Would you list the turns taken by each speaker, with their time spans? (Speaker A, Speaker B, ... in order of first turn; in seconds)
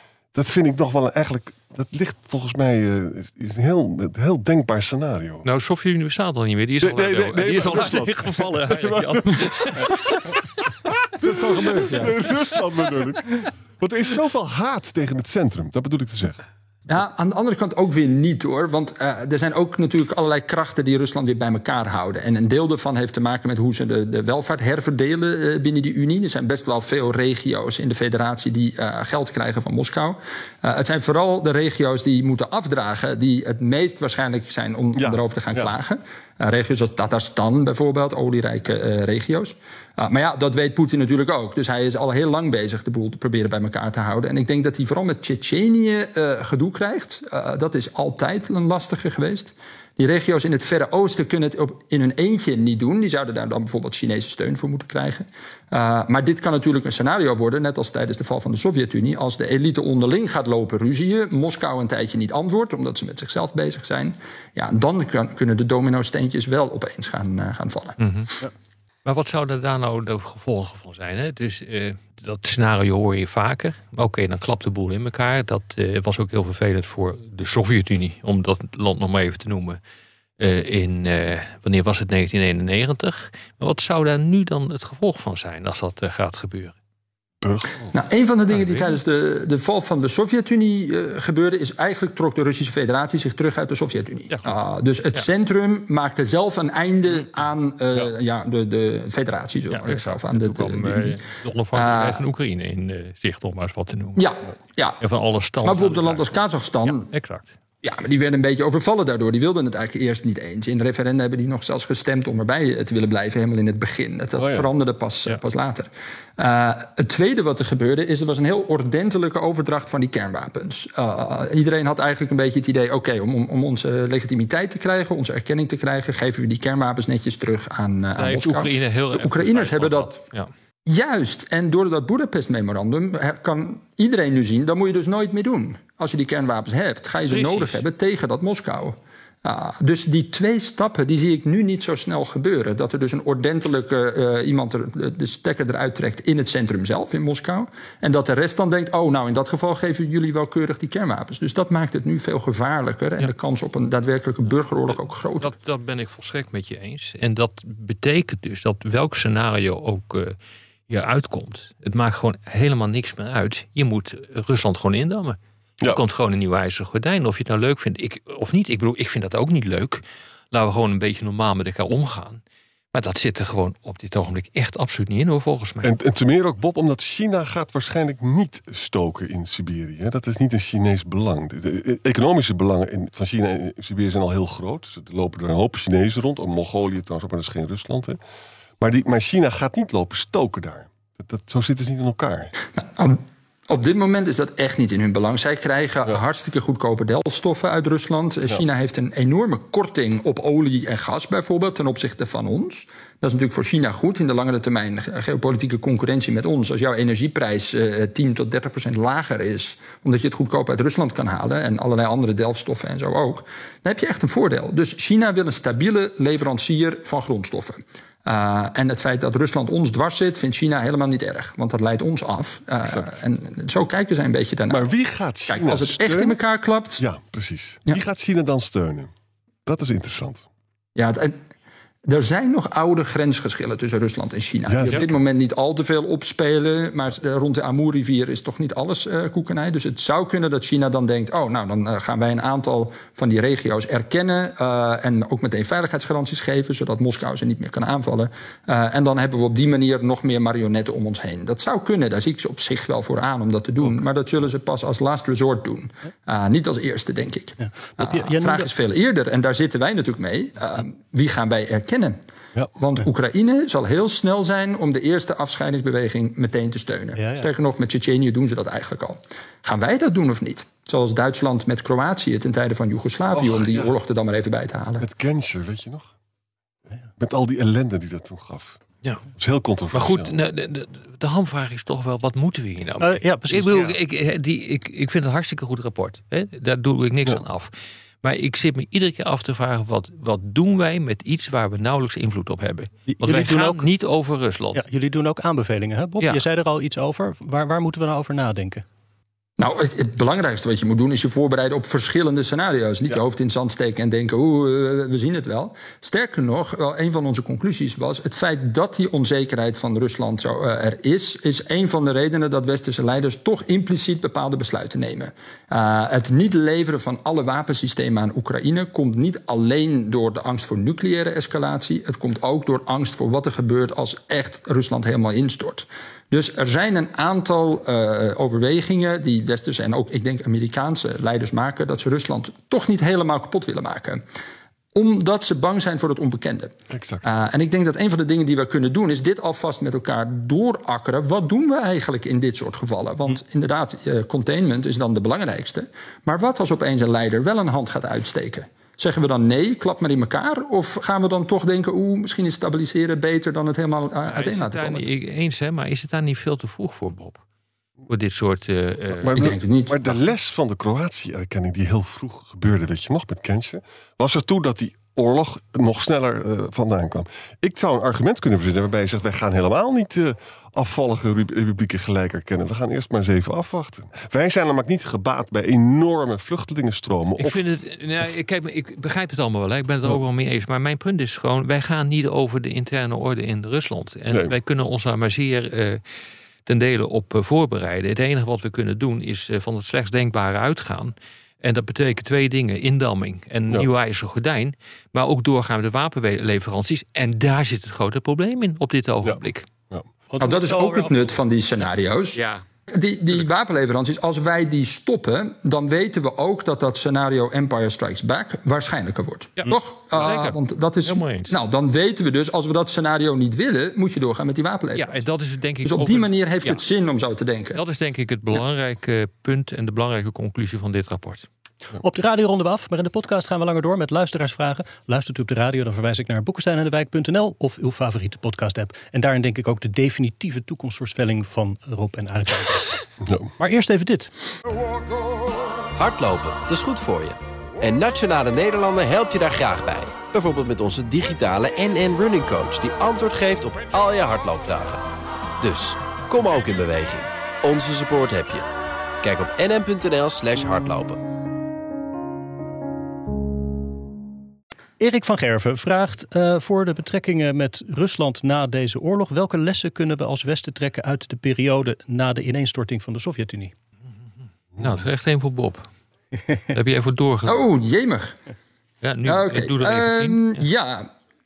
Speaker A: 0.3-5.5, 6.8-16.4, 34.9-35.8, 87.4-87.9, 114.3-114.7, 175.8-188.2, 188.8-192.5, 222.8-223.2, 224.7-226.4, 227.0-229.1, 229.6-230.5, 234.7-235.2, 273.3-273.9, 275.0-276.1, 277.2-278.8, 279.4-280.4, 336.9-337.2, 359.1-377.6, 399.2-400.1, 433.2-433.5
Speaker B: 5.4-10.3, 68.0-68.3, 69.0-79.8, 80.4-86.7, 88.5-89.0, 94.3-94.5, 99.7-104.2, 105.0-107.5, 128.1-130.5, 137.3-137.8, 154.9-160.4, 160.9-172.4, 172.9-175.9, 279.9-287.7, 288.2-294.8, 354.2-357.4, 358.1-359.6, 377.4-386.0, 386.6-399.7, 402.3-402.6, 409.6-411.6, 414.9-416.8, 417.7-421.5, 464.8-465.9, 466.7-467.6, 469.0-470.6
Speaker C: 11.2-12.2, 16.9-68.0, 87.9-101.2, 101.7-102.2, 104.2-105.0, 105.6-107.1, 107.8-130.2, 130.8-155.5, 192.8-224.9, 225.5-227.0, 230.9-231.4, 232.0-262.2, 262.8-275.1, 299.6-334.2, 334.9-355.1, 359.3-359.9, 400.4-415.2, 415.8-417.8, 467.4-468.4, 469.2-471.1
Speaker D: 257.6-258.7, 267.1-267.5, 283.0-283.9, 293.1-293.9, 294.7-298.8, 400.3-401.4, 422.0-432.8, 433.6-434.3, 455.0-463.7
Speaker E: 435.9-445.0, 445.6-448.7, 449.2-451.2